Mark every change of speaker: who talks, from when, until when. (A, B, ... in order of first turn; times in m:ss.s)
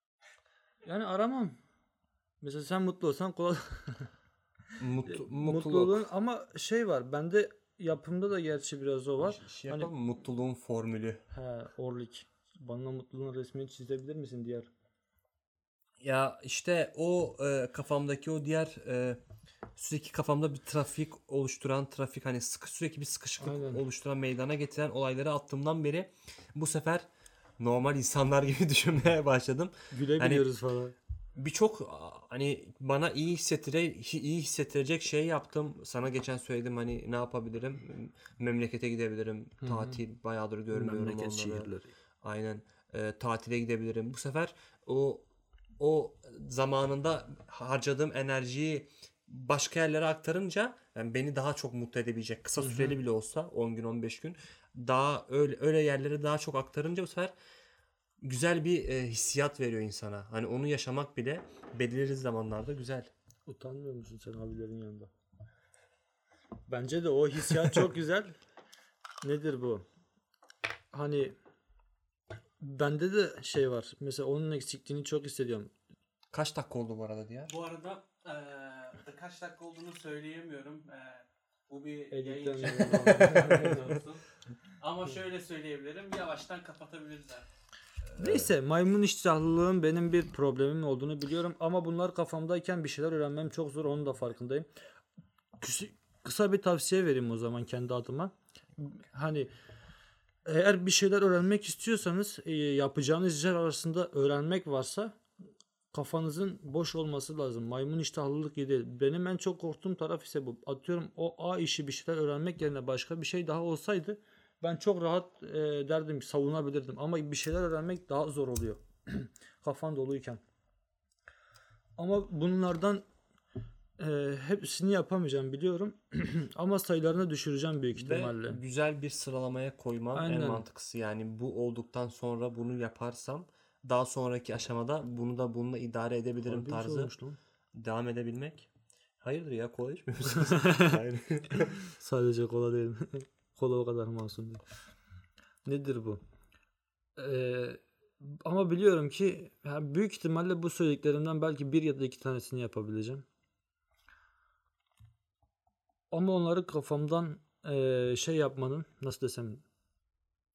0:00.8-0:01.6 A
0:02.4-0:04.1 A
0:04.8-0:06.0 B
0:05.0-0:09.9 A
0:09.2-0:11.2 B
0:11.3-0:14.7 A
0:16.0-0:19.2 B
0:19.8-0:27.1 B
0:23.4-0:23.8 A
0:27.6-0:30.4 B
0:29.9-0:30.9 A
0:31.4-0:41.7 B
0:39.6-0:40.0 A
0:40.7-0:41.9 A
0:42.2-0:45.2 B
0:45.8-0:57.3 B
0:52.6-0:53.0 A
0:58.2-1:03.1 B
1:03.5-1:05.1 A
1:06.7-1:08.4 A
1:09.2-1:09.8 A
1:10.9-1:11.4 A
1:12.6-1:15.7 A
1:16.3-1:17.5 B
1:17.5-1:24.2 C
1:22.1-1:23.9 A
1:23.2-1:23.6 B
1:24.8-1:27.4 C
1:28.1-1:28.5 B
1:28.2-1:34.7 A
1:35.6-1:39.5 A
1:40.4-1:45.2 A
1:45.9-2:00.4 A
2:02.0-2:03.0 A
2:04.0-2:08.6 A
2:07.9-2:17.1 B
2:10.1-2:10.6 A
2:16.5-2:17.4 A
2:17.7-2:18.7 B
2:19.2-2:21.7 B
2:20.3-2:21.0 A
2:21.6-2:24.6 A
2:25.6-2:26.2 A
2:27.2-2:33.2 A
2:36.1-2:39.6 A